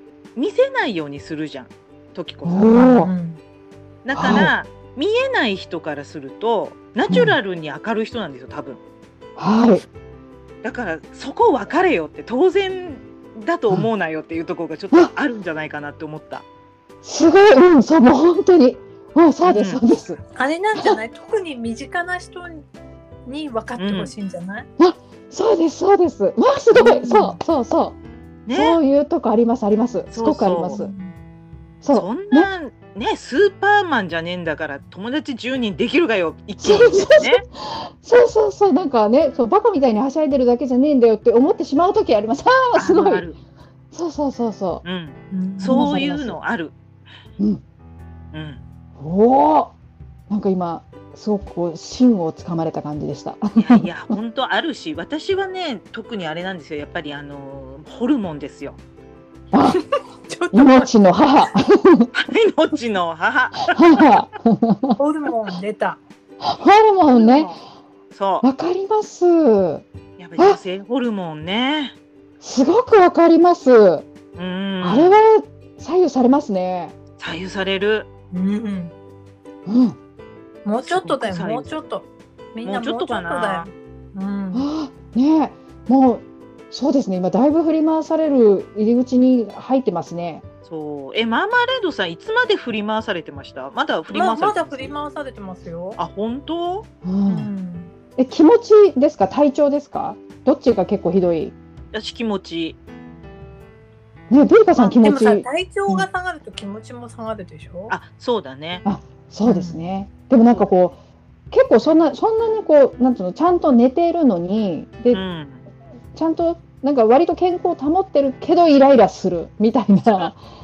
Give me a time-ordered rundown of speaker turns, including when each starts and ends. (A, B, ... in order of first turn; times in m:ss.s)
0:00.4-0:02.9 A
0:02.4-0:03.1 B
0:02.7-0:03.4 C
0:04.0-0:08.8 A
0:04.1-0:04.5 B
0:07.1-0:07.4 B
0:09.4-0:09.8 B
0:10.6-0:16.4 A
0:17.0-0:20.2 B
0:19.4-0:19.8 A
0:20.4-0:22.6 C
0:23.2-0:24.7 C
0:23.8-0:24.1 A
0:24.8-0:28.0 B
0:26.7-0:27.4 C
0:28.5-0:28.8 A
0:28.5-0:30.9 B
0:30.1-0:30.8 A
0:30.7-0:31.1 C
0:31.8-0:32.5 B
0:31.9-0:37.4 A
0:36.6-0:43.2 B
0:42.8-0:43.4 A
0:43.9-0:44.8 B
0:44.8-0:46.7 A
0:45.3-0:46.0 C
0:45.6-0:46.4 B
0:48.3-0:48.6 A
0:49.0-0:49.7 B
0:50.3-0:53.9 B
0:53.6-0:58.8 A
0:59.5-0:59.8 B
0:59.7-1:01.5 C
1:00.5-1:02.1 B
1:02.1-1:03.8 A
1:03.7-1:05.0 B
1:05.0-1:06.0 C
1:06.4-1:07.5 B
1:07.1-1:07.6 C
1:08.1-1:08.4 A
1:08.4-1:09.8 B
1:10.2-1:12.0 A
1:12.4-1:14.0 B
1:14.3-1:15.2 A
1:14.8-1:16.9 B
1:17.2-1:18.1 A
1:18.3-1:18.9 C
1:19.6-1:20.0 B
1:20.6-1:24.7 C
1:20.8-1:21.8 A
1:22.6-1:23.7 A
1:24.5-1:30.4 B
1:30.6-1:34.9 A
1:34.1-1:36.0 C
1:36.0-1:36.9 A
1:37.0-1:37.5 B
1:37.3-1:37.9 C
1:38.2-1:41.5 B
1:41.9-1:42.8 A
1:44.3-1:46.0 B
1:44.8-1:47.9 C
1:47.9-1:48.8 A
1:48.8-1:51.0 B
1:49.4-1:49.8 C
1:51.5-1:55.2 B
1:55.1-1:55.6 A
1:56.1-2:00.4 B
2:00.0-2:00.3 A